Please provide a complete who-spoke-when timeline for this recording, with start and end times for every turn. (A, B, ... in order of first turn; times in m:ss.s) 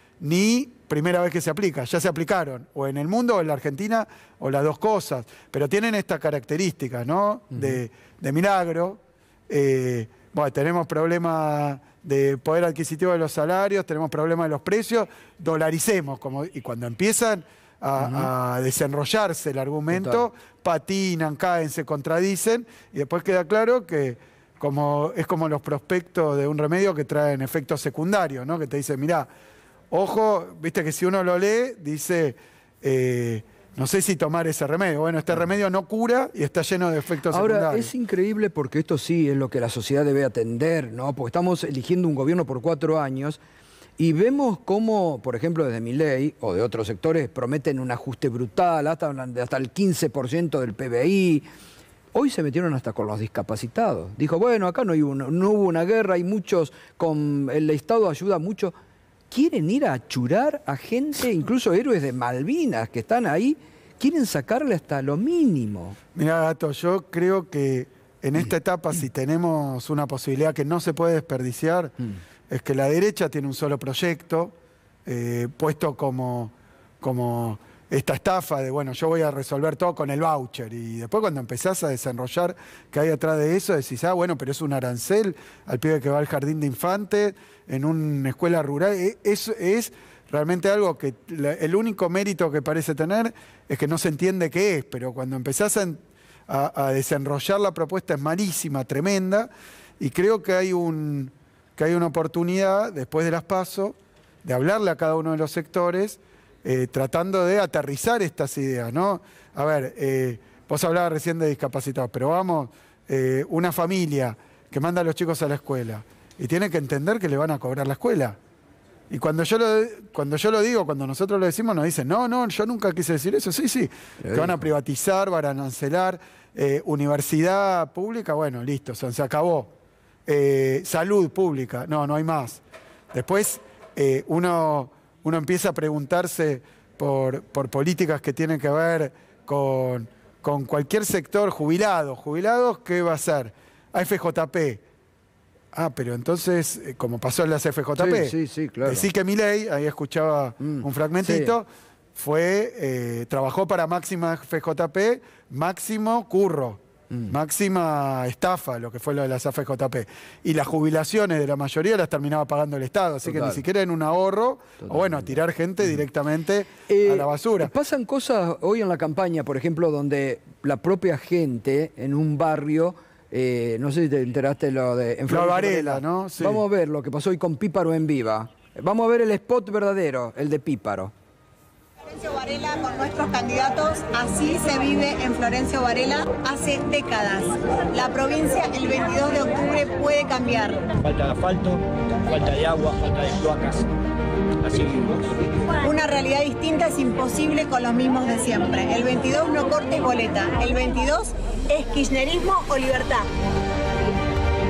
0:00.2-0:29.3 A
0:07.5-0:07.8 B
0:18.0-0:18.3 B
0:19.9-0:20.2 B
0:29.9-0:37.9 A
0:37.3-0:43.4 B
0:44.0-0:51.5 B
0:52.1-0:58.7 B
0:59.3-1:06.0 B
1:06.1-1:11.9 A
1:12.5-1:14.5 A
1:15.1-1:58.4 A
1:59.1-2:09.7 A
2:04.2-2:04.5 B
2:10.3-2:12.6 A
2:13.1-2:24.8 A
2:25.7-2:47.7 A
2:28.0-2:29.1 B
2:30.6-2:31.6 B
2:43.2-2:43.6 B
2:44.8-2:45.4 B
2:46.9-3:01.1 B
2:55.3-2:56.6 A
3:02.0-3:10.9 C
3:11.0-3:13.9 D
3:14.6-3:15.4 D
3:15.8-3:23.2 C